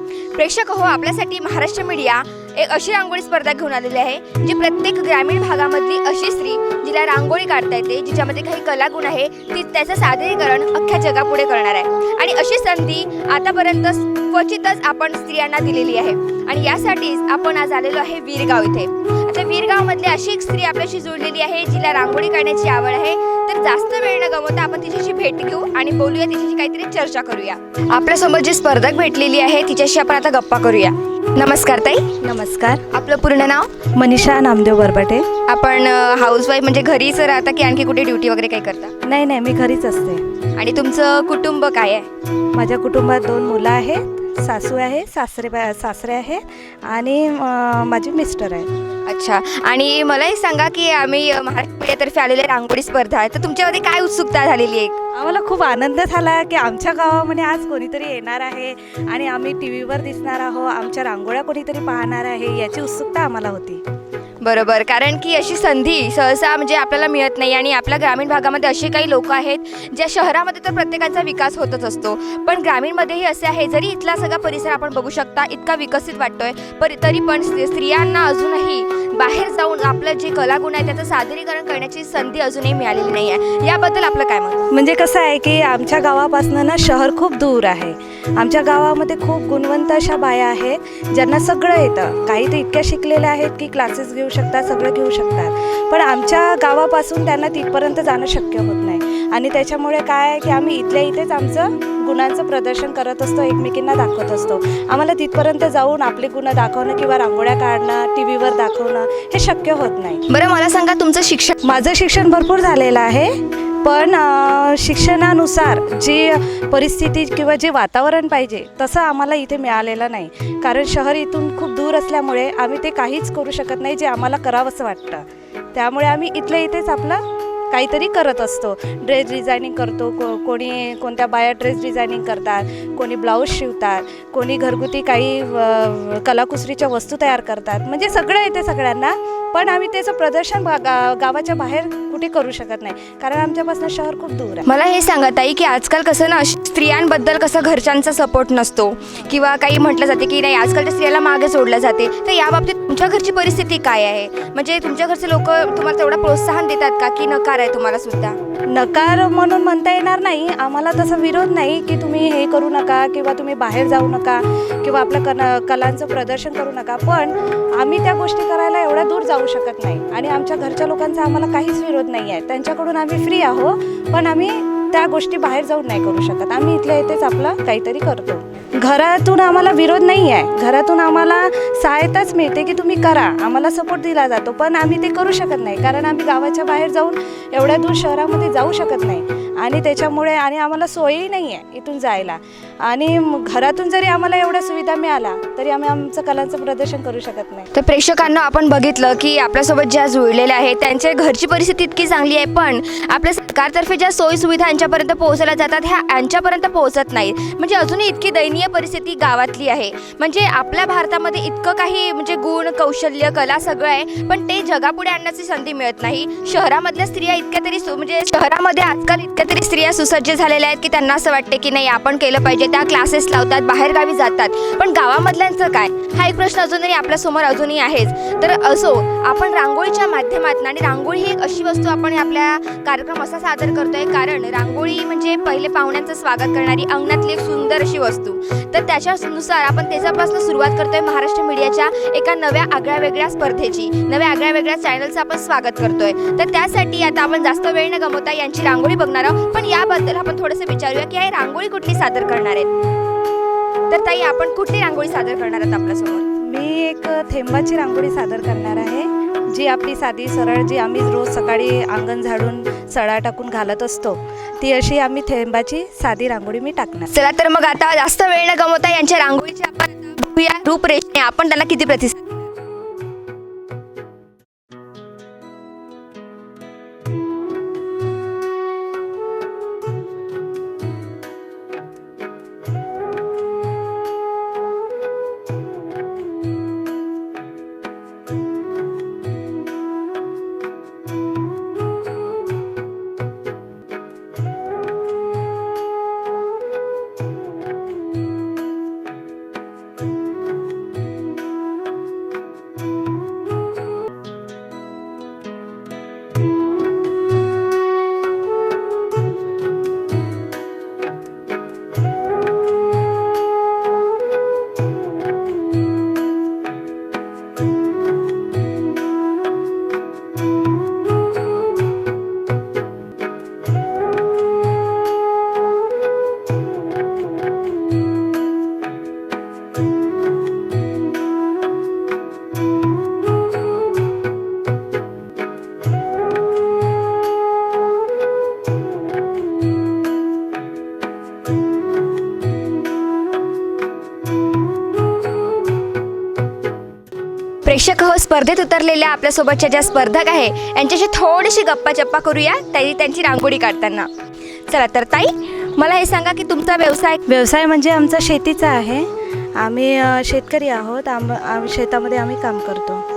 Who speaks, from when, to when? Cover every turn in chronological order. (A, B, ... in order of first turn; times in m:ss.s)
0:00.3-0:32.2 A
0:32.2-0:32.8 B
0:32.9-0:33.7 A
0:33.9-0:35.3 B
0:35.5-0:38.9 A
0:39.0-0:40.2 B
0:40.6-0:42.1 A
0:42.5-0:48.7 B
0:49.0-0:55.0 A
0:55.2-1:03.8 B
1:04.4-1:24.6 A
1:24.7-1:50.2 B
1:50.3-1:51.7 A
1:51.6-2:24.7 B
2:24.7-2:38.4 A
2:38.7-3:17.7 B
3:17.7-4:12.7 A
4:13.9-4:16.2 A
4:16.5-4:27.1 B
4:27.1-4:32.4 A
5:47.6-5:54.1 A
5:54.7-5:57.2 A
5:57.3-5:59.1 B
5:59.6-6:03.0 B